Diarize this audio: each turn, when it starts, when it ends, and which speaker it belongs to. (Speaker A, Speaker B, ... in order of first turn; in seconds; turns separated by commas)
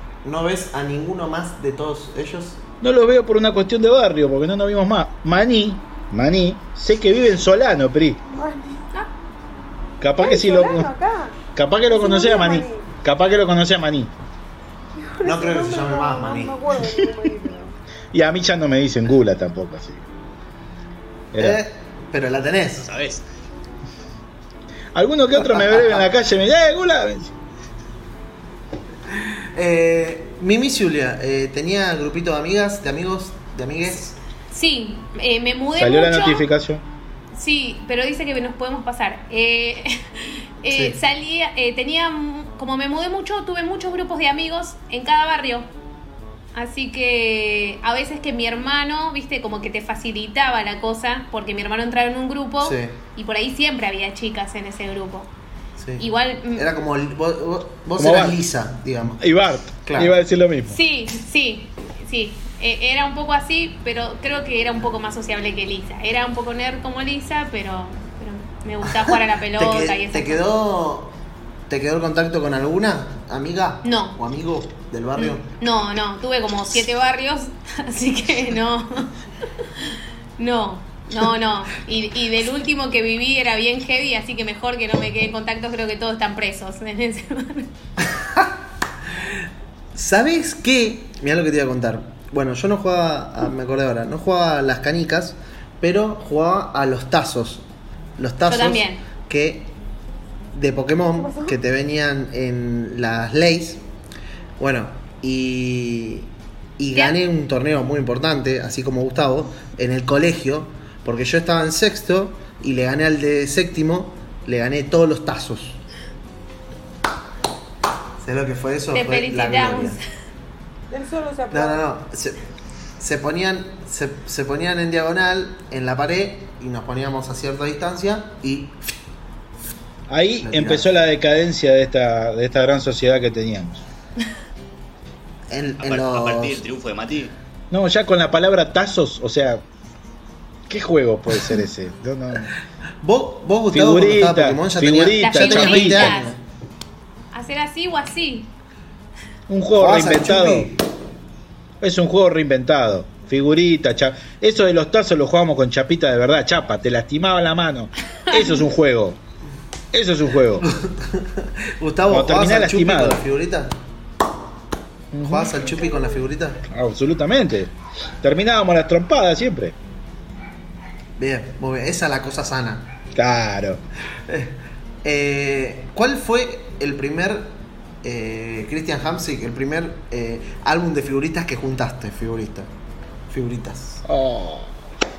Speaker A: 0.2-2.6, Speaker B: 2.8-8.2, Speaker C: 8.3-8.8, Speaker B: 10.0-10.9, Speaker C: 10.2-12.9, Speaker B: 11.5-14.1, Speaker C: 15.0-17.8, Speaker A: 15.2-16.6, Speaker B: 18.1-20.0, Speaker B: 21.3-21.6, Speaker A: 21.4-22.9, Speaker D: 22.8-23.2, Speaker B: 24.9-27.3, Speaker A: 25.4-26.0, Speaker A: 29.1-34.2, Speaker E: 34.5-36.5, Speaker B: 35.8-36.8, Speaker E: 37.3-45.7, Speaker A: 40.7-41.0, Speaker E: 46.5-55.3, Speaker A: 52.6-53.0, Speaker A: 55.8-59.2, Speaker E: 56.0-56.7, Speaker B: 58.0-58.4, Speaker B: 59.2-60.8, Speaker A: 59.8-60.1, Speaker E: 60.7-70.5, Speaker A: 68.8-71.2, Speaker A: 71.7-75.5, Speaker E: 73.8-74.2, Speaker E: 75.2-87.7, Speaker A: 88.1-88.5, Speaker A: 89.1-89.4, Speaker A: 89.9-97.6, Speaker A: 98.2-99.7, Speaker E: 98.5-99.0, Speaker A: 100.5-103.8, Speaker C: 101.2-101.5, Speaker A: 104.6-115.8, Speaker A: 118.2-120.0, Speaker E: 118.9-120.0, Speaker C: 120.9-121.8, Speaker A: 121.5-122.4, Speaker A: 123.0-128.9, Speaker B: 130.1-133.8, Speaker A: 130.3-130.9, Speaker A: 135.5-136.6, Speaker D: 135.8-137.3, Speaker B: 137.7-139.6, Speaker B: 140.7-142.5, Speaker A: 143.0-146.4, Speaker B: 143.7-146.2, Speaker E: 145.2-146.3, Speaker E: 147.3-148.5, Speaker B: 149.5-150.7, Speaker A: 149.7-150.8, Speaker B: 151.8-159.2, Speaker E: 158.2-158.7, Speaker B: 159.9-160.7, Speaker A: 160.6-163.8, Speaker B: 162.1-163.2, Speaker B: 165.1-165.5, Speaker A: 165.2-166.6, Speaker C: 165.6-166.2, Speaker B: 166.7-169.7, Speaker A: 171.2-172.9, Speaker B: 173.1-173.8, Speaker A: 174.2-182.7, Speaker A: 183.3-184.0, Speaker B: 184.0-184.7